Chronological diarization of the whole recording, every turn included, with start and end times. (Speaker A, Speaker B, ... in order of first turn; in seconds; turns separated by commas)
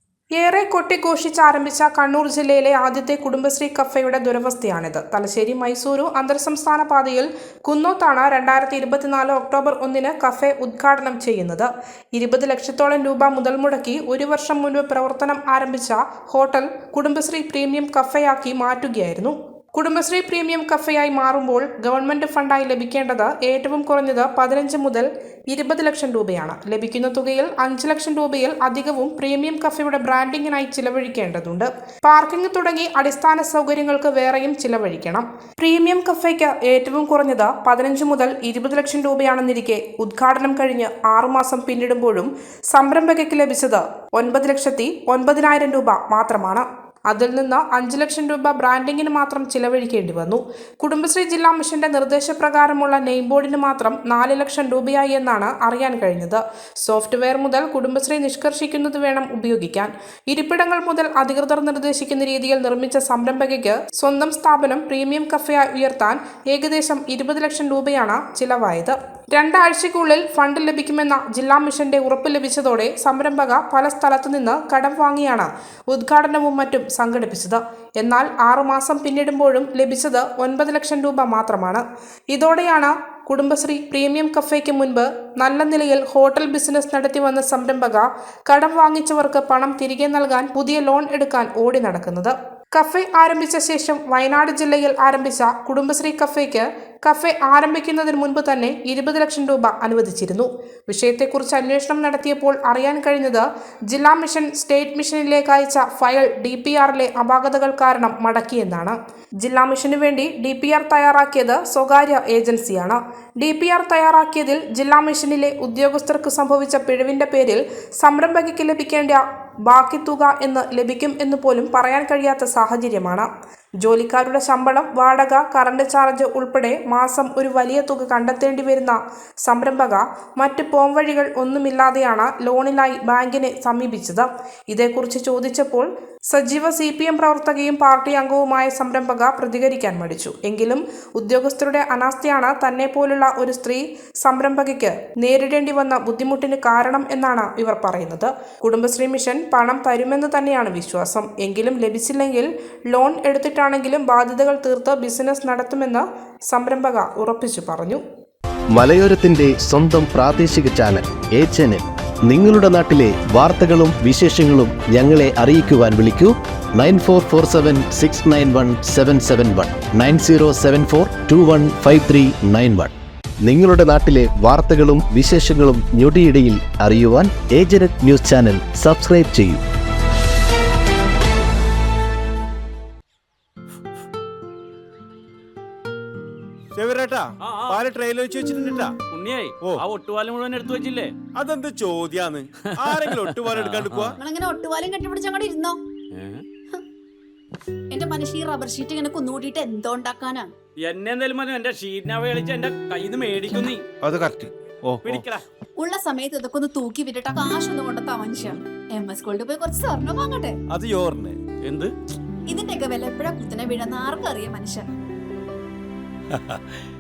Speaker A: 0.4-123.3, Speaker A: 123.8-158.0, Speaker B: 158.7-172.9, Speaker B: 173.4-179.6, Speaker C: 186.7-189.0, Speaker D: 187.5-187.8, Speaker D: 189.1-191.1, Speaker C: 191.3-194.2, Speaker D: 192.9-193.9, Speaker E: 194.2-195.8, Speaker E: 197.9-200.5, Speaker D: 200.8-203.8, Speaker C: 204.0-205.3, Speaker D: 205.0-205.4, Speaker E: 205.8-210.6, Speaker C: 210.7-211.4, Speaker D: 211.6-211.9, Speaker E: 212.5-214.9